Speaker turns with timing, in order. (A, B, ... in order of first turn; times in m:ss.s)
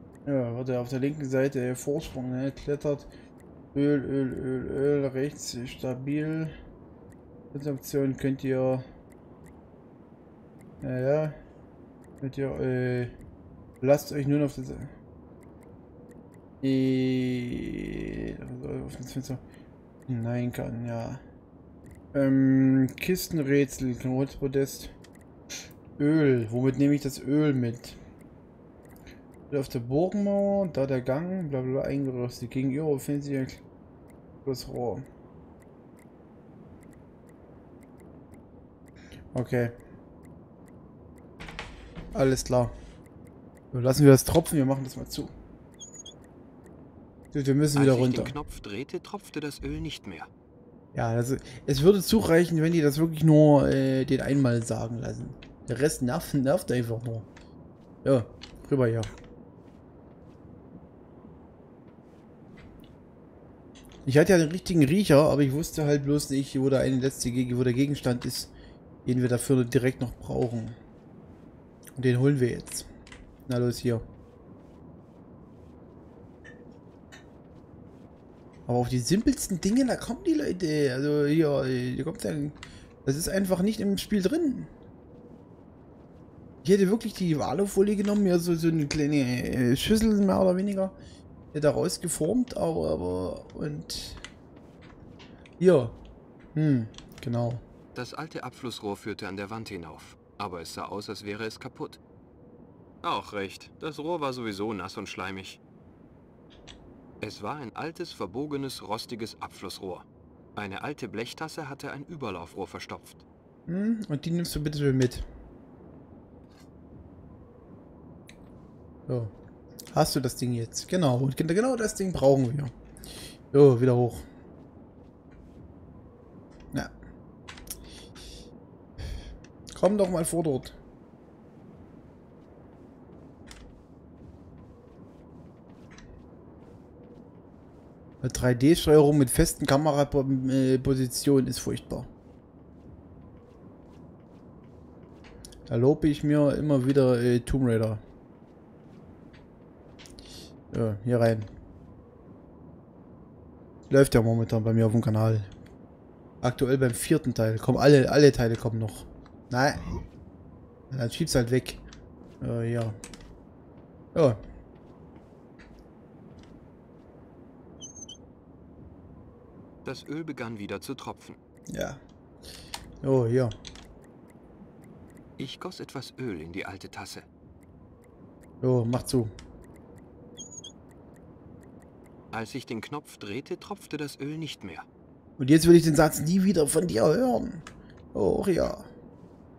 0:00.2-0:03.1 A
0:03.7-0:06.6 A
0:07.5-0:08.8 A
0:10.8-0:11.4 A
0:12.2-0:13.1 A
0:13.8-0:14.9 A
0:16.6-0:19.4 A
0:20.1-0:21.2 A
0:22.1-0:24.9 A
0:26.0-0:28.0 A
0:29.5-0:33.6 A
0:34.4-0:35.0 A
0:39.3-0:39.8 A
0:42.1-0:42.7 A
0:43.7-0:45.3 A
0:47.3-0:48.4 A
0:47.7-0:50.3 B
0:50.9-0:57.3 A
0:58.0-0:59.1 A
1:04.0-1:08.5 A
1:09.0-1:10.8 A
1:12.0-1:12.9 A
1:13.5-1:14.0 A
1:18.7-1:24.7 A
1:26.6-1:31.0 A
1:31.5-1:34.2 A
1:35.6-1:36.0 A
1:36.5-1:37.6 A
1:37.9-1:42.0 B
1:43.0-1:45.6 B
1:47.2-1:53.2 B
1:53.7-1:55.2 A
1:59.1-1:59.3 A
1:59.9-2:02.7 A
2:03.5-2:04.2 A
2:09.7-2:10.8 A
2:18.2-2:22.1 A
2:25.7-2:28.0 A
2:30.7-2:31.5 A
2:33.9-2:35.5 A
2:36.4-2:39.8 A
2:40.9-2:41.8 A
2:42.4-2:43.0 A
2:44.1-2:44.4 A
2:49.8-2:51.4 B
2:51.7-2:52.0 A
2:53.0-2:53.5 A
2:55.4-2:57.3 B
2:58.6-2:59.3 A
3:02.3-3:04.9 B
3:05.4-3:08.9 A